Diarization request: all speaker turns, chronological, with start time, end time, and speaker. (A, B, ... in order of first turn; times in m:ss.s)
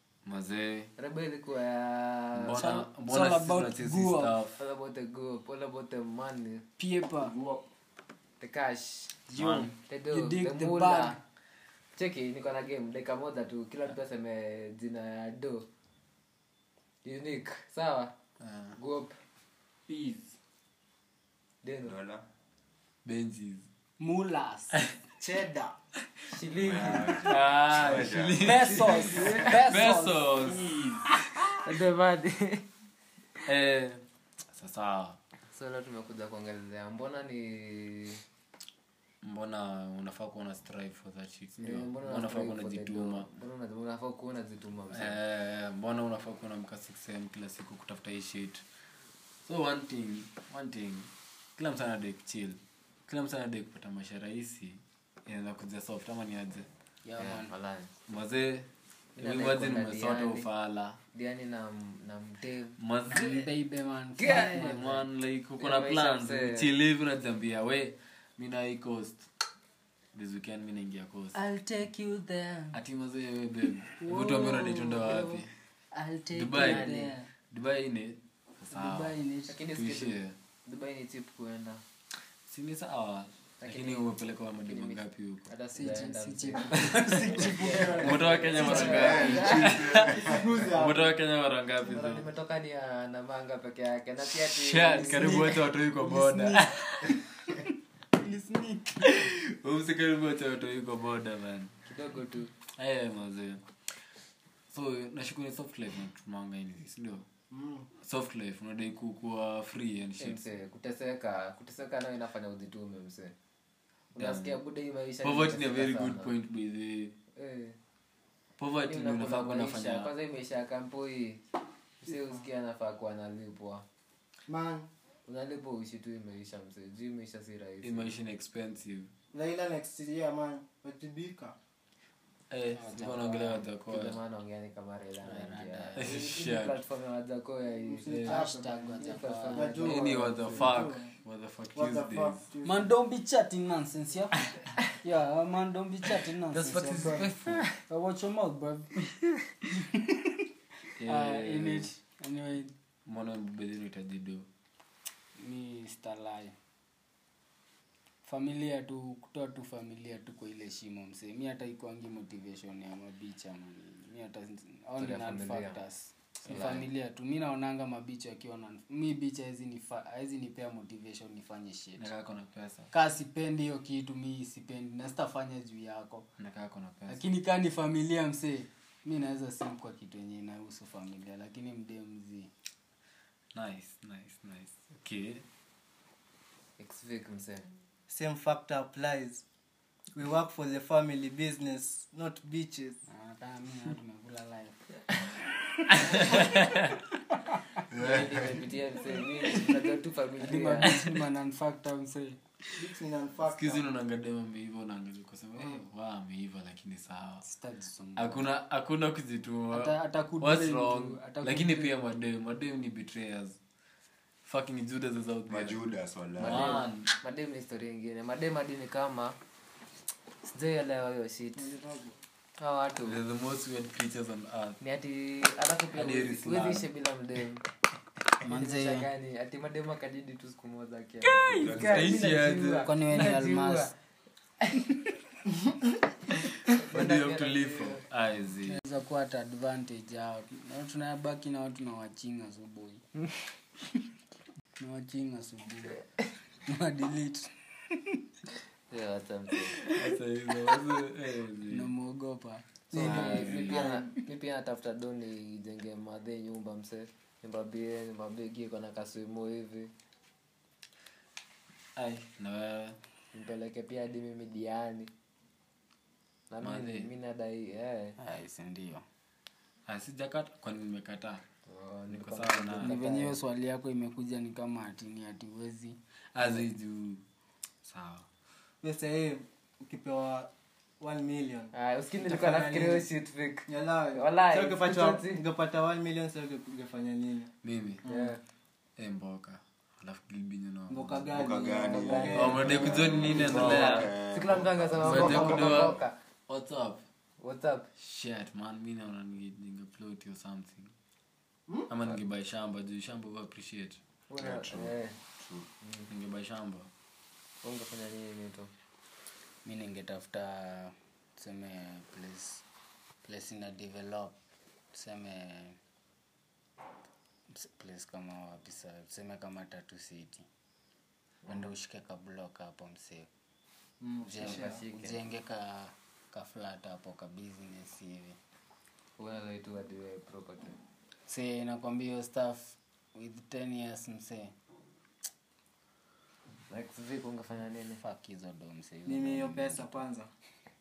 0:00.3-0:00.9 A
0:01.0-0:02.7 B
0:02.4-0:04.6 A
0:02.6-0:04.4 C
0:04.6-0:06.6 B
0:06.8-0:07.4 C
0:08.4-0:09.2 B
0:09.3-0:11.2 C
0:09.4-0:09.7 A
0:09.9-0:11.2 B
0:12.0-0:15.6 B
0:17.0-0:18.1 B
0:18.4-0:18.8 A
0:18.8-0:19.2 B
0:19.9-0:20.3 C
0:21.6-0:22.0 B
0:21.8-0:22.2 D
0:23.0-0:23.7 A
0:24.0-0:24.8 C
0:25.2-0:25.8 E
0:26.3-0:27.3 B
0:26.6-0:29.3 D
0:27.2-0:30.8 A
0:28.4-0:30.9 C
0:28.6-0:29.6 B
0:31.6-0:32.6 B
0:33.5-0:34.0 A
0:34.5-0:35.2 A
0:35.5-0:38.2 B
0:39.2-0:43.3 A
0:41.6-0:45.2 B
0:44.9-0:48.6 A
0:49.4-0:56.7 A
0:57.1-0:57.5 C
0:57.2-0:57.9 B
0:58.1-1:01.0 A
0:59.2-1:00.5 B
1:01.2-1:02.8 B
1:02.8-1:03.5 A
1:03.1-1:05.0 C
1:04.2-1:05.0 B
1:04.3-1:09.2 A
1:05.6-1:06.7 B
1:10.1-1:11.4 A
1:11.3-1:12.8 C
1:12.7-1:15.5 A
1:14.0-1:17.3 C
1:16.3-1:17.0 A
1:16.6-1:17.1 B
1:17.5-1:19.1 A
1:18.7-1:19.6 C
1:19.5-1:21.8 B
1:19.8-1:20.3 A
1:22.5-1:25.5 A
1:23.6-1:24.1 B
1:24.7-1:29.8 B
1:25.8-1:29.6 C
1:28.0-1:32.3 A
1:28.7-1:30.6 D
1:30.2-1:31.2 E
1:31.8-1:35.5 B
1:34.5-1:37.2 A
1:35.0-1:39.1 C
1:39.0-1:41.8 A
1:41.9-1:42.5 B
1:42.7-1:43.6 A
1:44.7-1:47.2 A
1:47.5-1:47.9 E
1:48.0-1:50.4 A
1:50.2-1:53.3 B
1:54.2-1:56.3 B
1:54.2-1:54.6 A
1:55.2-1:57.2 A
1:57.4-1:57.8 B
1:58.6-2:00.1 A
1:58.8-2:01.4 B
2:02.0-2:03.8 B
2:04.5-2:04.9 E
2:05.3-2:08.1 B
2:07.8-2:09.1 A
2:09.3-2:11.6 E
2:12.5-2:14.2 A
2:12.8-2:13.4 C
2:13.0-2:18.3 B
2:15.2-2:16.2 C
2:16.0-2:16.8 A
2:17.9-2:21.1 E
2:18.1-2:18.5 A
2:18.3-2:19.9 C
2:19.0-2:20.6 B
2:19.8-2:22.4 A
2:21.8-2:22.9 E
2:22.6-2:29.1 C
2:26.5-2:27.6 A
2:26.7-2:27.2 E
2:29.7-2:30.4 C
2:31.0-2:31.9 A
2:31.0-2:32.7 C
2:33.1-2:34.4 A
2:35.4-2:36.5 C
2:38.2-2:52.1 C
2:45.0-2:45.8 B
2:46.5-2:46.9 B
2:52.0-2:52.9 A
2:52.9-2:56.2 C
2:56.4-2:57.2 A
2:57.1-3:02.5 C
3:03.6-3:05.4 A
3:06.8-3:07.6 B
3:08.1-3:09.4 E
3:10.2-3:13.0 E
3:13.1-3:15.2 C
3:15.9-3:16.8 C
3:16.0-3:16.9 A
3:17.9-3:18.7 D
3:18.0-3:21.0 B
3:20.4-3:22.4 C
3:22.8-3:23.9 E
3:23.5-3:27.5 A
3:27.4-3:28.5 C
3:28.2-3:33.6 A
3:29.7-3:31.9 C
3:34.4-3:35.8 A
3:35.5-3:36.8 D
3:36.4-3:37.1 A
3:36.4-3:39.4 B
3:40.4-3:41.7 B
3:41.6-3:42.2 E
3:42.6-3:43.2 B
3:43.0-3:44.8 A
3:44.8-3:47.6 B
3:46.0-3:46.9 A
3:48.4-3:49.1 C
3:48.4-3:53.9 B
3:51.3-3:51.8 C
3:51.6-3:52.2 D
3:51.8-3:52.8 A
3:51.9-3:52.9 E
3:52.8-3:53.9 C
3:56.7-3:58.0 B
3:56.9-3:58.8 A
3:58.7-4:03.0 C
4:04.8-4:06.0 C
4:06.7-4:08.2 C
4:08.9-4:09.8 B
4:09.9-4:11.9 A
4:11.7-4:14.0 C
4:12.9-4:14.0 E
4:12.9-4:19.9 B
4:22.0-4:23.0 A
4:23.3-4:25.1 B
4:26.5-4:28.2 B
4:26.6-4:27.1 A
4:28.2-4:29.0 C
4:29.9-4:31.4 A
4:31.7-4:33.4 B
4:32.1-4:32.9 A
4:32.8-4:36.0 C
4:36.4-4:37.2 A
4:37.8-4:38.3 A
4:38.8-4:40.5 E
4:41.0-4:43.1 E
4:41.7-4:45.4 B
4:43.7-4:47.5 E
4:47.6-4:48.0 A
4:48.0-4:48.4 E
4:48.0-4:48.4 B
4:49.0-4:51.2 A
4:50.9-4:53.8 E
4:51.3-4:56.0 D
4:51.9-4:56.2 B
4:52.4-4:54.1 A
4:55.0-4:57.0 A
4:55.0-4:55.8 E
4:57.4-4:57.9 B
4:58.0-5:00.9 A
5:01.9-5:04.0 A
5:04.3-5:05.2 B
5:04.4-5:05.7 D
5:05.8-5:06.1 B
5:06.1-5:06.9 A
5:07.6-5:08.7 B
5:09.6-5:12.6 C
5:13.2-5:14.4 C
5:14.9-5:15.8 C
5:17.5-5:20.4 C
5:21.5-5:23.3 C
5:24.0-5:24.8 E
5:24.2-5:28.4 C
5:24.4-5:25.2 B
5:29.2-5:30.8 B
5:31.3-5:34.5 C
5:36.7-5:38.0 B
5:38.0-5:39.9 C
5:39.0-5:40.3 E